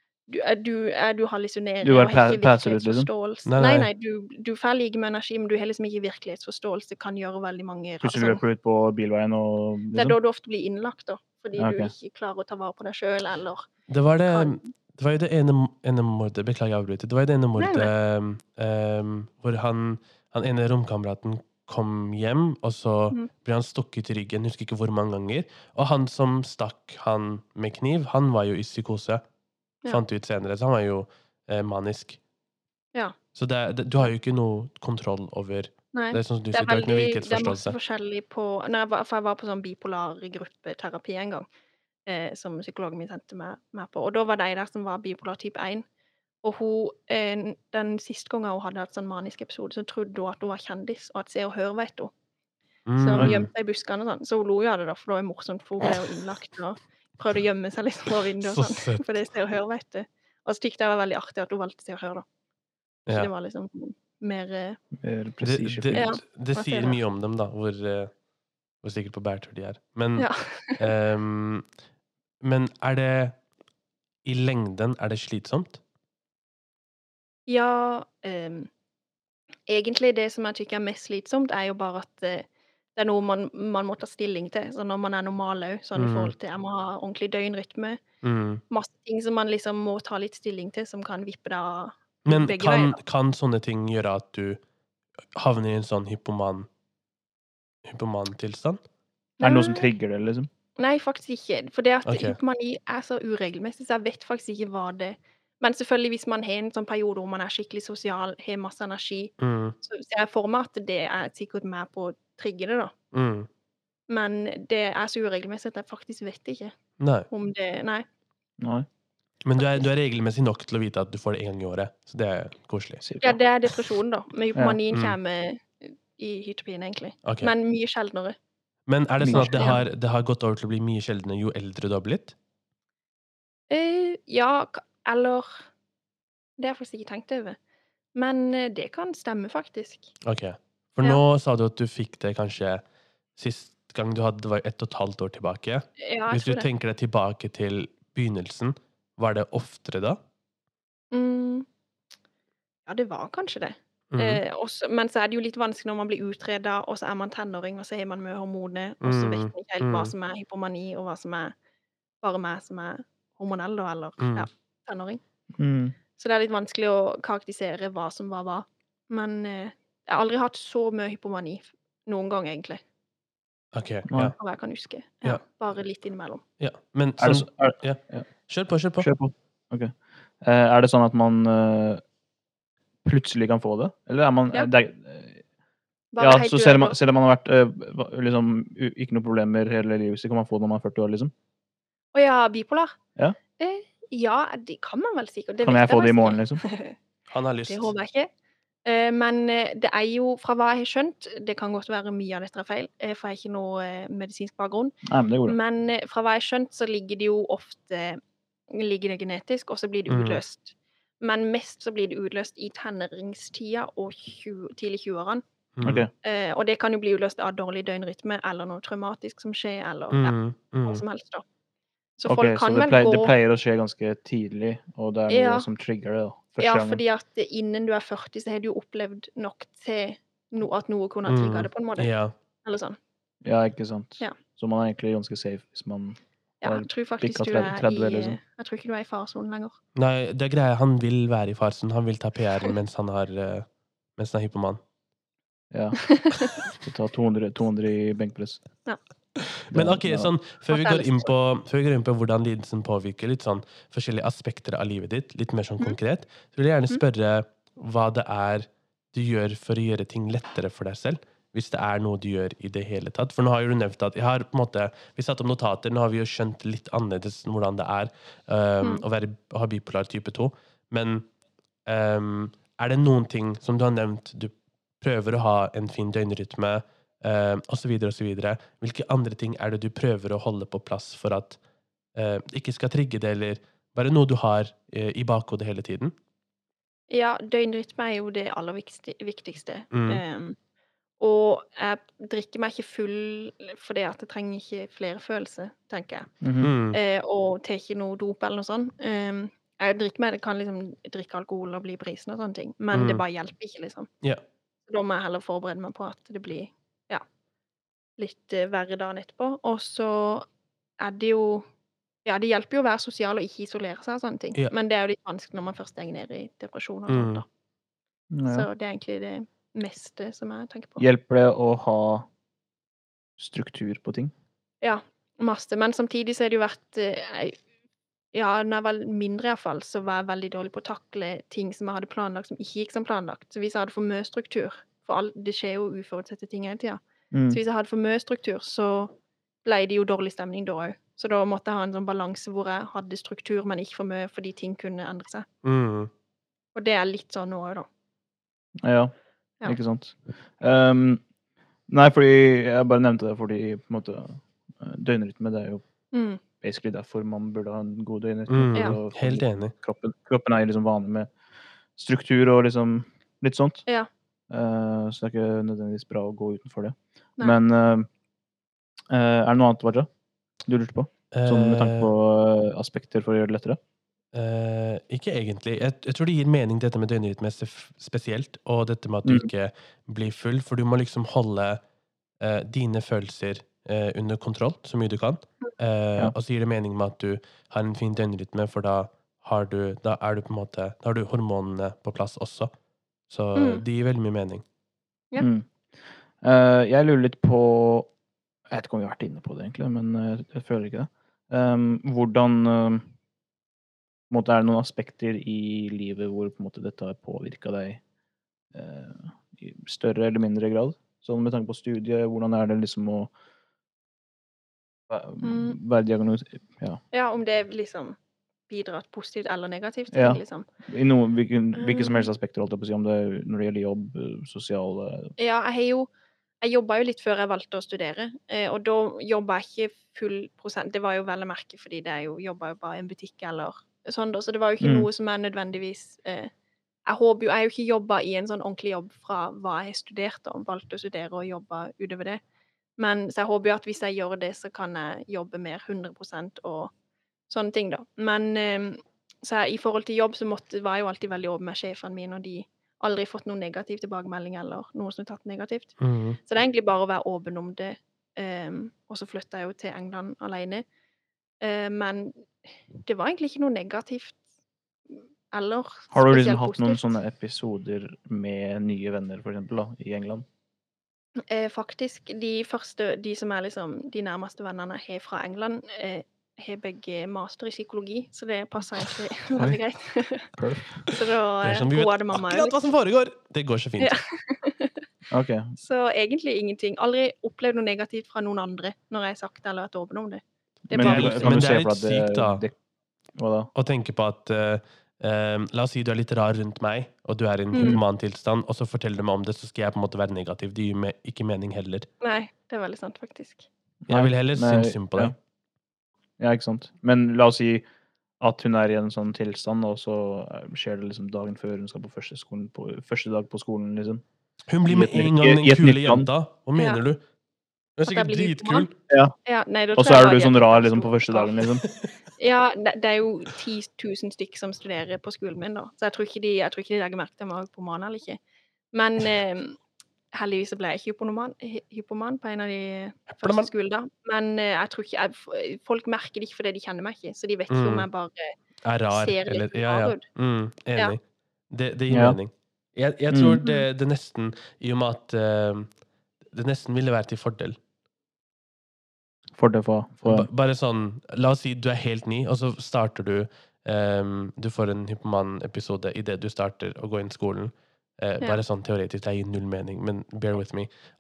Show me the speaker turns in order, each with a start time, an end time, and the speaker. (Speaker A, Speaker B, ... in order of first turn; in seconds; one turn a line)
Speaker A: 0.3-8.4
Speaker B: 1.8-3.1
Speaker C: 3.5-3.9
Speaker B: 8.0-10.2
Speaker A: 9.9-13.7
Speaker B: 11.6-11.9
Speaker C: 13.9-29.2
Speaker A: 14.2-14.7
Speaker A: 17.6-17.9
Speaker C: 29.9-32.2
Speaker C: 33.3-37.8
Speaker A: 35.9-41.5
Speaker A: 42.1-45.9
Speaker A: 46.4-52.1
Speaker C: 52.9-53.5
Speaker A: 53.0-62.2
Speaker C: 58.4-59.1
Speaker A: 63.1-64.8
Speaker B: 65.0-66.2
Speaker C: 65.4-68.1
Speaker A: 65.9-67.0
Speaker C: 68.8-71.6
Speaker A: 70.2-70.8
Speaker C: 72.4-73.4
Speaker C: 74.2-75.8
Speaker A: 77.5-78.7
Speaker A: 79.7-88.0
Speaker C: 86.0-86.3
Speaker C: 88.2-88.6
Speaker A: 88.7-93.0
Speaker C: 92.2-94.6
Speaker C: 95.3-96.7
Speaker C: 97.8-98.8
Speaker A: 99.4-99.9
Speaker B: 99.4-100.5
Speaker A: 100.8-112.9
Speaker C: 102.0-102.4
Speaker C: 109.4-109.8
Speaker C: 113.1-113.5
Speaker A: 114.1-116.7
Speaker C: 117.0-117.3
Speaker A: 117.3-118.0
Speaker B: 118.6-118.8
Speaker C: 119.4-123.0
Speaker A: 119.6-119.8
Speaker B: 123.0-123.4
Speaker A: 123.2-128.3
Speaker C: 127.2-127.5
Speaker C: 128.9-132.3
Speaker B: 129.2-129.8
Speaker A: 129.3-129.8
Speaker A: 133.7-135.7
Speaker A: 136.6-137.6
Speaker A: 138.1-140.1
Speaker C: 140.2-142.8
Speaker C: 143.3-150.2
Speaker A: 146.0-146.7
Speaker A: 151.1-151.7
Speaker A: 152.8-161.5
Speaker C: 154.1-154.4
Speaker C: 159.0-160.1
Speaker A: 162.2-165.2
Speaker C: 164.2-164.5
Speaker B: 165.6-165.9
Speaker A: 166.2-172.8
Speaker C: 173.7-174.4
Speaker A: 174.4-176.4
Speaker C: 176.6-179.1
Speaker B: 177.2-178.2
Speaker B: 179.0-182.0
Speaker B: 183.0-185.4
Speaker A: 186.1-186.9
Speaker B: 186.2-191.3
Speaker A: 192.1-192.9
Speaker A: 193.6-196.9
Speaker B: 195.6-196.6
Speaker C: 197.3-197.9
Speaker A: 197.7-198.3
Speaker A: 198.8-204.9
Speaker B: 205.0-205.6
Speaker A: 205.5-215.4
Speaker C: 210.1-210.4
Speaker C: 215.8-216.1
Speaker B: 215.8-216.1
Speaker A: 216.2-221.4
Speaker C: 220.1-221.0
Speaker A: 222.2-223.3
Speaker B: 222.3-227.0
Speaker A: 225.3-225.7
Speaker A: 226.6-232.1
Speaker C: 231.2-232.3
Speaker A: 232.6-233.0
Speaker B: 233.4-238.4
Speaker A: 236.6-239.8
Speaker C: 239.9-244.8
Speaker B: 245.7-248.6
Speaker A: 246.0-246.6
Speaker C: 249.5-271.3
Speaker B: 249.7-250.3
Speaker A: 250.7-251.3
Speaker C: 271.9-281.6
Speaker C: 282.1-286.1
Speaker A: 287.1-290.6
Speaker C: 289.9-290.2
Speaker A: 291.2-296.3
Speaker B: 296.4-296.7
Speaker C: 296.6-297.0
Speaker A: 296.9-304.1
Speaker C: 302.9-303.2
Speaker A: 304.9-307.2
Speaker A: 308.2-310.4
Speaker A: 311.0-311.6
Speaker A: 312.2-317.4
Speaker C: 317.1-317.4
Speaker B: 318.3-318.7
Speaker A: 318.5-321.1
Speaker B: 321.0-322.3
Speaker B: 323.4-324.3
Speaker A: 324.8-327.6
Speaker A: 328.3-345.4
Speaker B: 337.3-337.6
Speaker C: 345.6-346.1
Speaker A: 346.7-347.9
Speaker B: 348.8-349.1
Speaker B: 349.6-351.2
Speaker B: 351.9-355.8
Speaker A: 356.1-356.4
Speaker B: 356.6-361.3
Speaker C: 358.5-359.7
Speaker B: 362.0-363.8
Speaker B: 364.5-368.1
Speaker B: 369.1-370.1
Speaker B: 370.6-373.8
Speaker C: 371.3-372.1
Speaker C: 374.3-381.8
Speaker B: 379.2-379.5
Speaker C: 382.4-392.7
Speaker C: 393.3-394.6
Speaker A: 393.5-393.8
Speaker B: 395.4-395.6
Speaker B: 396.4-398.1
Speaker B: 398.7-403.1
Speaker B: 404.3-408.0
Speaker B: 408.7-413.3
Speaker B: 415.1-417.0
Speaker A: 415.4-415.8
Speaker A: 417.1-418.2
Speaker A: 418.7-420.7
Speaker B: 420.1-425.3
Speaker A: 421.8-422.3
Speaker A: 425.4-426.1
Speaker A: 426.6-436.5
Speaker B: 434.8-435.1
Speaker A: 437.1-442.4
Speaker A: 443.0-446.9
Speaker A: 447.5-455.9
Speaker C: 456.0-456.4
Speaker A: 456.4-460.8
Speaker A: 461.6-464.4
Speaker A: 465.5-467.1
Speaker B: 466.1-470.4
Speaker A: 471.5-482.8
Speaker B: 480.6-481.0
Speaker C: 481.6-484.1
Speaker A: 484.0-485.0
Speaker B: 485.3-485.7
Speaker A: 485.8-491.6
Speaker B: 490.9-492.7
Speaker C: 490.9-492.6
Speaker B: 493.4-493.7
Speaker C: 493.7-502.1
Speaker A: 497.7-498.0
Speaker A: 502.2-503.7
Speaker B: 504.0-505.3
Speaker C: 504.1-505.3
Speaker B: 506.4-507.9
Speaker B: 508.4-514.2
Speaker C: 514.7-517.2
Speaker B: 514.9-516.3
Speaker A: 516.8-517.0
Speaker C: 518.0-518.9
Speaker A: 518.0-518.9
Speaker B: 519.1-519.3
Speaker A: 519.4-521.6
Speaker B: 520.0-521.8
Speaker C: 521.8-522.1
Speaker A: 522.4-528.4
Speaker A: 528.9-529.8
Speaker A: 530.3-538.5
Speaker C: 533.3-533.7
Speaker C: 537.7-538.1
Speaker C: 538.8-545.9
Speaker A: 539.1-540.2
Speaker B: 542.1-542.4
Speaker B: 543.3-543.6
Speaker A: 543.6-543.9
Speaker C: 546.5-547.8
Speaker B: 549.6-550.5
Speaker C: 550.2-560.9